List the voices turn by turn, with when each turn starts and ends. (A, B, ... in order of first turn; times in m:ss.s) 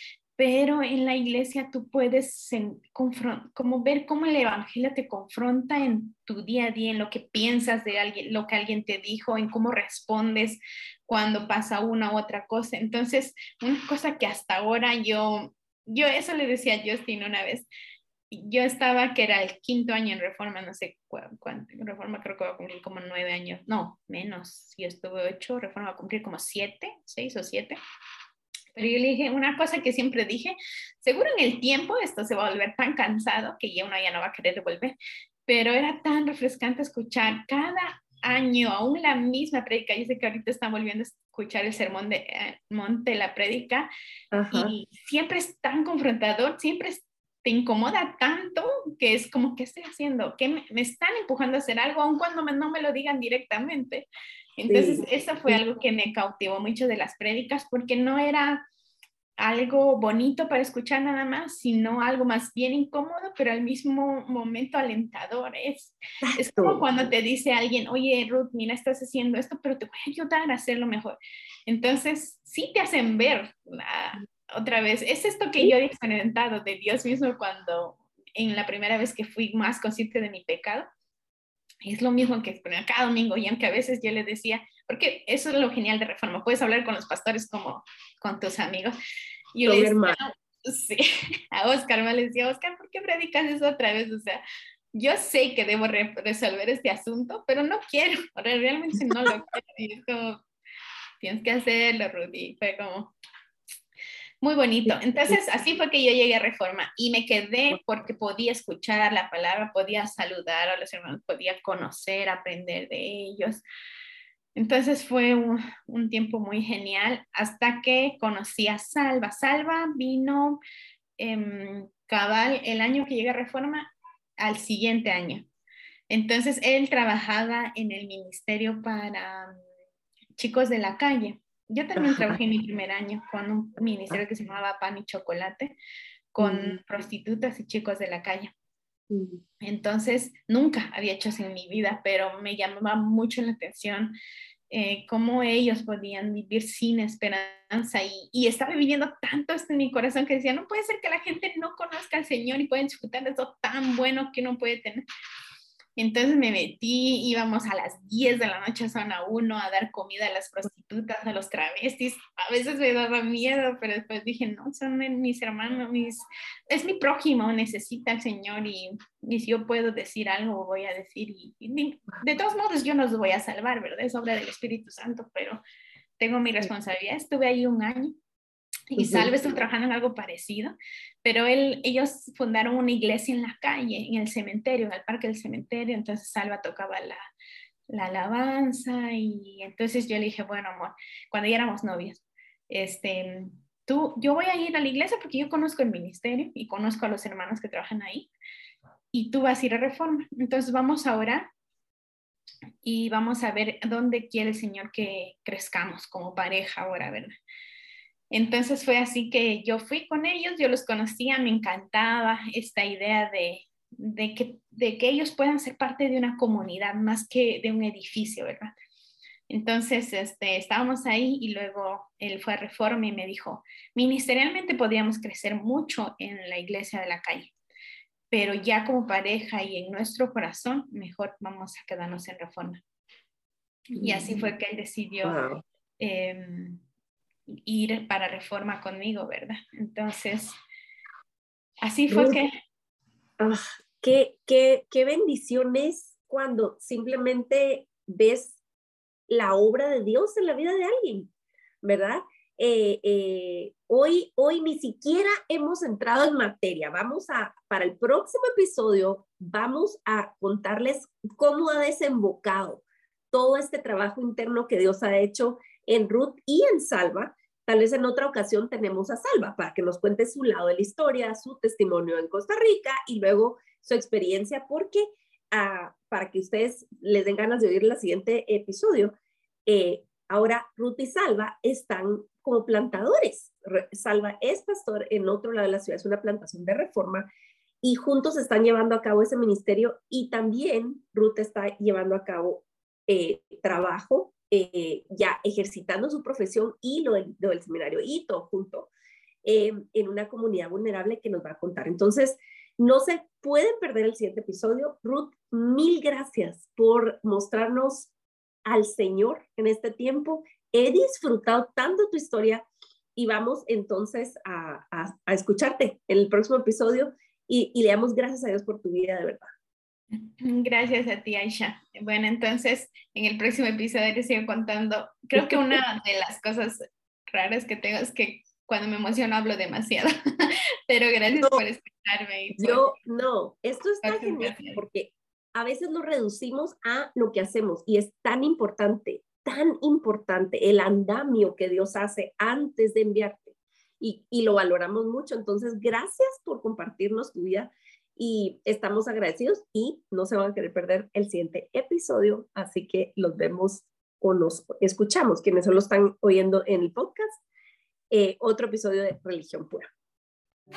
0:00.4-0:17.7 A
0:18.3-0:27.8 A
0:28.8-0:35.0 A
0:35.5-0:43.9 A
0:44.3-0:44.8 B
0:44.5-0:54.1 A
0:54.6-0:58.6 A
0:54.7-0:55.6 B
0:59.4-1:11.2 A
1:06.2-1:06.8 B
1:11.7-1:20.9 A
1:21.8-1:29.0 A
1:29.5-1:34.4 A
1:29.6-1:30.2 B
1:34.9-1:40.4 A
1:41.2-1:43.1 A
1:44.4-1:53.6 A
1:54.6-2:00.6 A
2:01.2-2:05.5 A
2:06.1-2:09.6 A
2:10.4-2:15.8 A
2:12.0-2:12.4 B
2:16.3-2:18.5 A
2:16.4-2:16.8 B
2:19.1-2:19.4 B
2:19.6-2:24.2 A
2:24.7-2:35.0 A
2:36.0-2:55.6 A
2:56.2-2:58.1 A
2:58.9-3:07.2 A
2:59.0-2:59.4 B
3:07.9-3:18.3 A
3:19.1-3:21.5 A
3:22.8-3:27.3 A
3:28.3-3:38.7 A
3:39.5-3:47.5 A
3:48.3-3:52.8 A
3:53.9-3:54.5 B
3:54.0-3:55.4 A
3:55.2-3:55.6 B
3:56.0-3:56.8 A
3:57.7-4:00.6 A
4:01.8-4:02.5 A
4:02.1-4:02.4 B
4:03.4-4:08.6 B
4:09.3-4:11.3 B
4:11.8-4:39.2 B
4:39.7-4:47.3 B
4:47.8-4:58.9 B
4:59.4-5:08.1 B
5:08.6-5:19.5 B
5:20.4-5:32.9 A
5:25.4-5:25.8 B
5:32.6-5:57.4 B
5:34.0-5:34.8 A
5:58.1-5:59.9 B